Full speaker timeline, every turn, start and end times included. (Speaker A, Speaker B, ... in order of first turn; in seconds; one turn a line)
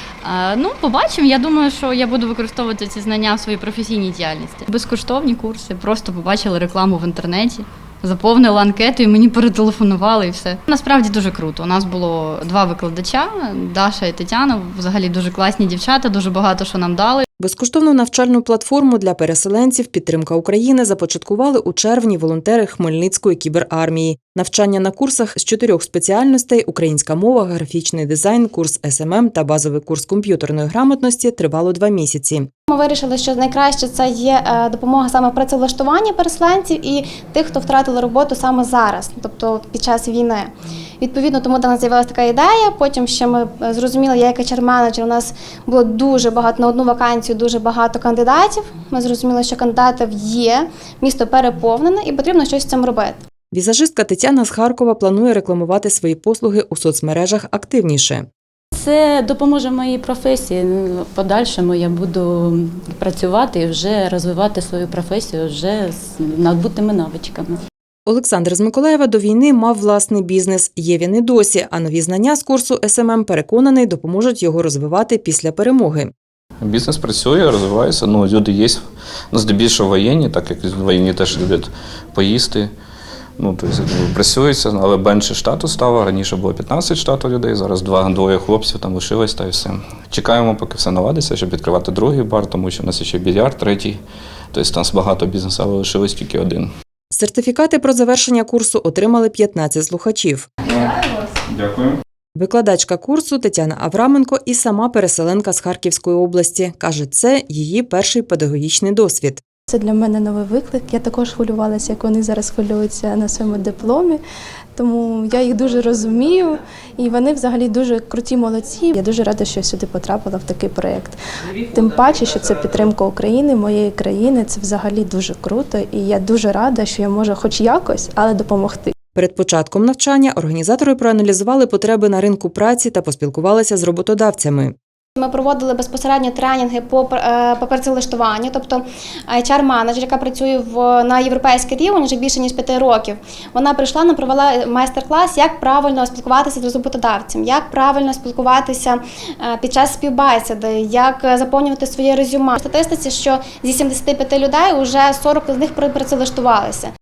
Speaker A: 0.2-17.2
Speaker B: 17.4-32.5
Speaker C: 32.7-53.2
Speaker B: 53.5-58.3
Speaker D: 58.8-67.6
Speaker B: 68.1-76.1
Speaker E: 76.6-78.8
Speaker E: 79.3-82.7
Speaker E: 83.4-94.0
Speaker E: 94.5-96.7
Speaker B: 97.1-100.5
Speaker E: 100.7-102.0
Speaker B: 102.4-109.4
Speaker F: 109.7-114.2
Speaker F: 114.8-128.9
Speaker B: 129.1-134.7
Speaker C: 135.2-156.9